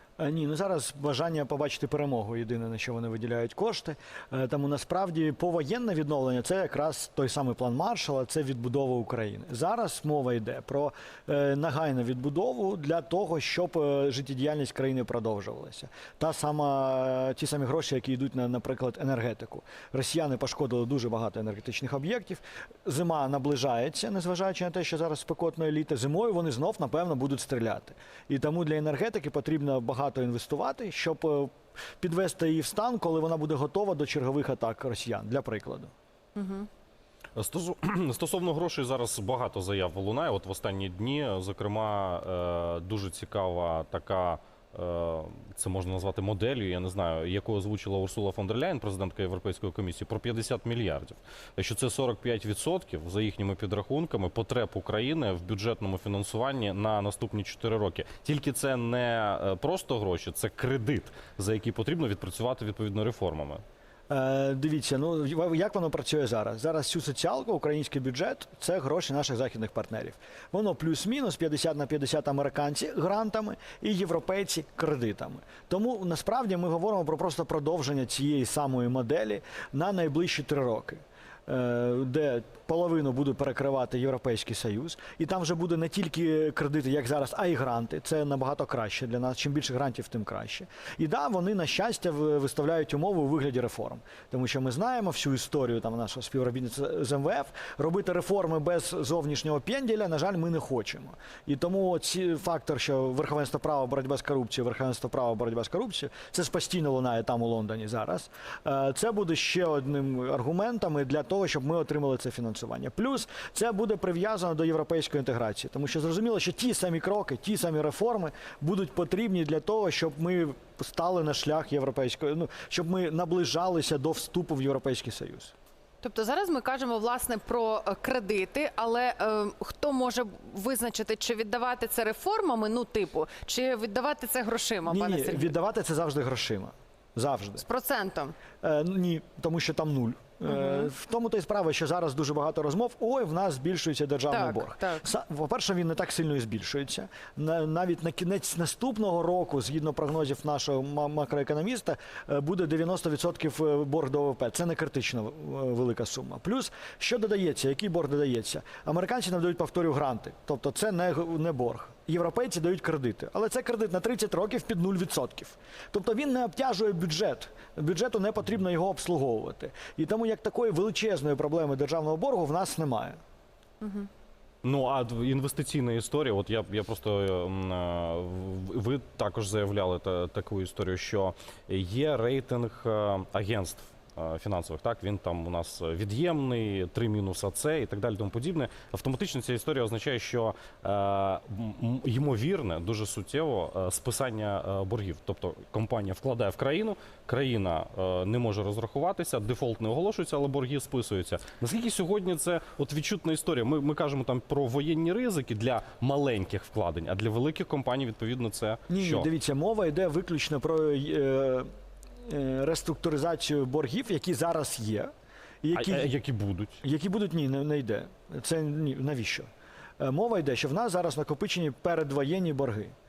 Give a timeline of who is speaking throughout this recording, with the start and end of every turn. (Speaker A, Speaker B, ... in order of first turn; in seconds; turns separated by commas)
Speaker A: 0.2-35.9, Speaker B: 36.4-36.7, Speaker C: 37.4-63.6, Speaker A: 64.1-125.5, Speaker B: 126.0-135.5, Speaker A: 134.8-137.6, Speaker B: 137.6-138.3, Speaker A: 138.6-173.2, Speaker B: 140.5-140.9, Speaker B: 144.3-145.1, Speaker B: 173.8-174.1, Speaker C: 174.6-209.3, Speaker A: 208.9-211.7, Speaker A: 212.2-215.1, Speaker A: 215.6-216.1, Speaker C: 215.7-216.8, Speaker A: 216.8-219.5, Speaker A: 220.0-222.9